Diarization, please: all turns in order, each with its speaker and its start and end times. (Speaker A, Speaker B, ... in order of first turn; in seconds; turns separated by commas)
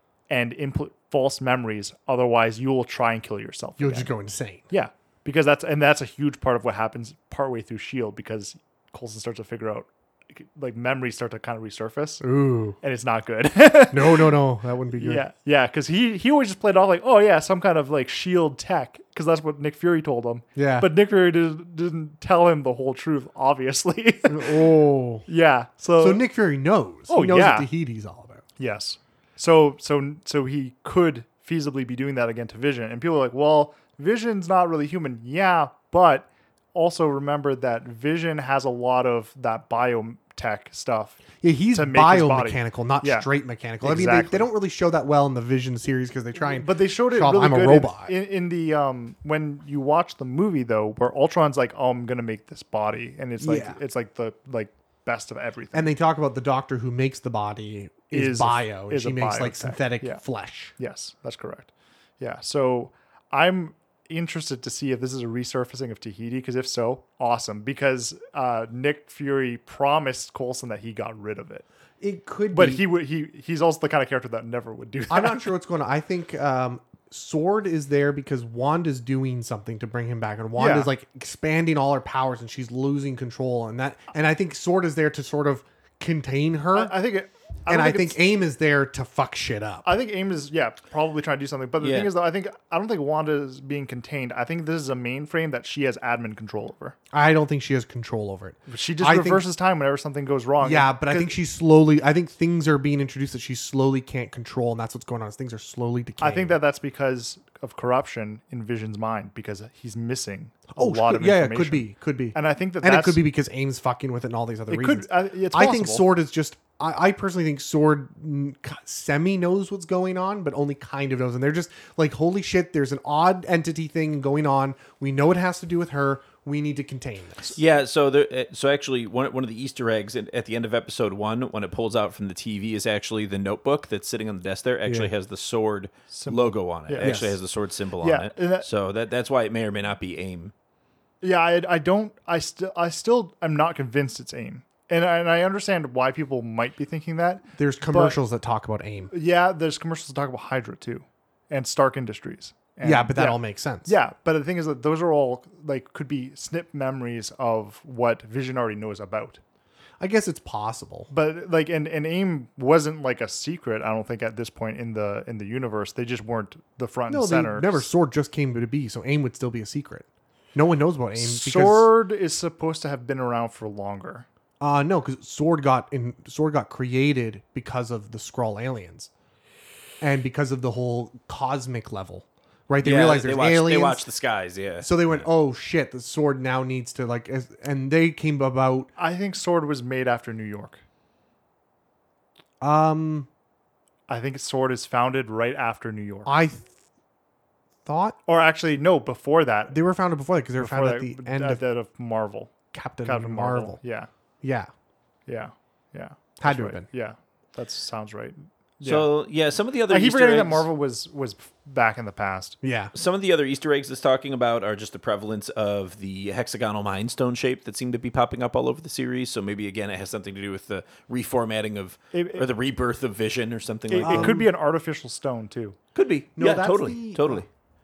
Speaker A: 0.3-4.1, Speaker B: 3.8-4.6, Speaker A: 4.7-12.2, Speaker B: 12.2-12.8, Speaker A: 12.8-14.3, Speaker B: 13.9-15.2, Speaker A: 15.0-24.6, Speaker B: 20.6-20.9, Speaker B: 24.2-25.3, Speaker A: 25.2-26.2, Speaker B: 26.0-28.4, Speaker A: 27.1-27.7, Speaker A: 28.6-43.3, Speaker B: 41.4-48.1, Speaker A: 43.8-44.5, Speaker A: 46.6-55.9, Speaker B: 53.4-53.8, Speaker B: 55.7-60.7, Speaker A: 58.1-60.2, Speaker A: 60.7-71.7, Speaker B: 72.0-72.9, Speaker A: 72.5-75.5, Speaker B: 75.1-87.0, Speaker A: 80.5-80.9, Speaker A: 86.7-88.2, Speaker B: 87.7-89.9, Speaker A: 89.8-97.0, Speaker C: 91.8-92.1, Speaker B: 97.1-99.4, Speaker A: 98.7-101.3, Speaker B: 100.6-106.6, Speaker A: 106.2-113.2, Speaker B: 110.7-127.6, Speaker A: 114.7-116.0, Speaker C: 127.5-140.5, Speaker B: 134.8-135.1, Speaker A: 136.1-137.2, Speaker B: 137.0-137.3, Speaker A: 138.0-138.7, Speaker A: 141.2-148.2, Speaker B: 147.6-149.1, Speaker A: 149.1-159.4, Speaker B: 152.8-153.9, Speaker B: 160.0-161.1, Speaker A: 161.1-167.8, Speaker B: 167.1-171.9, Speaker A: 171.2-174.2, Speaker B: 174.6-179.1, Speaker B: 180.0-184.0, Speaker C: 182.8-185.0, Speaker B: 184.8-188.9, Speaker A: 189.0-190.8, Speaker B: 192.6-193.3, Speaker A: 194.1-196.3, Speaker B: 196.2-196.7, Speaker B: 197.8-198.2, Speaker A: 198.2-199.8, Speaker B: 199.7-201.6, Speaker A: 200.6-202.5, Speaker B: 202.7-203.8, Speaker A: 203.0-204.1, Speaker B: 204.4-204.7, Speaker A: 205.3-209.1, Speaker B: 206.4-206.9, Speaker C: 208.8-210.7, Speaker A: 209.9-212.6, Speaker B: 212.6-212.9, Speaker C: 212.9-224.4, Speaker A: 222.1-222.5, Speaker A: 223.9-225.8, Speaker B: 224.0-224.5, Speaker C: 225.9-227.4, Speaker B: 226.4-227.4